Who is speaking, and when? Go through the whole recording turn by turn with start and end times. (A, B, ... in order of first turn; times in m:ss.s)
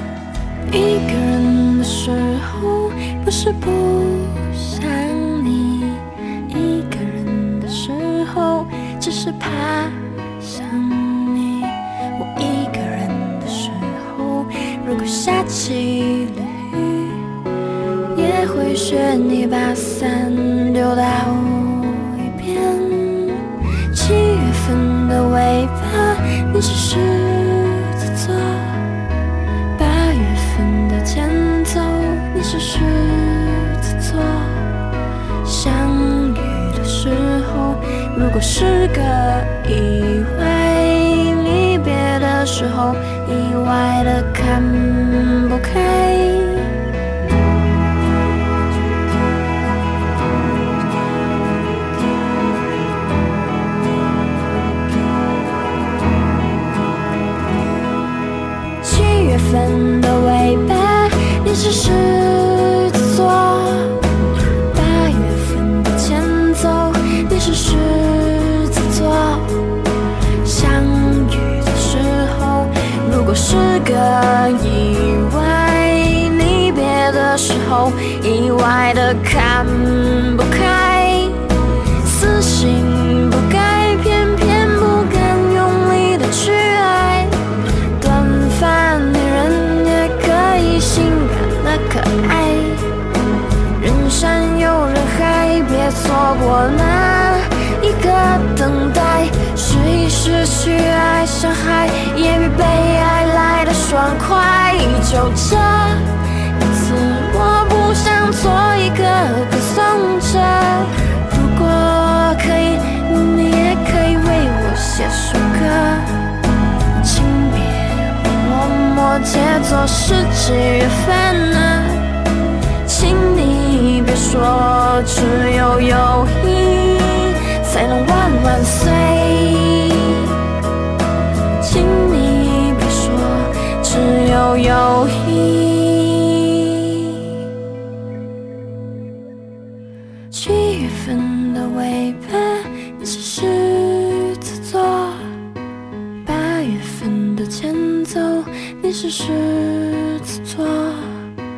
0:00.7-0:17.4 A
0:18.1-0:29.0 A
0:29.8-0:34.8 A
0:35.4-0:46.9 A
0:58.8-1:04.1 A
1:04.7-1:09.8 A
1:10.4-1:27.4 A
1:28.0-1:33.0 A
1:33.7-1:56.3 A
1:57.0-2:02.2 A
2:02.8-2:10.4 A
2:11.6-2:17.4 A
2:20.3-2:25.4 A
2:26.2-2:31.3 A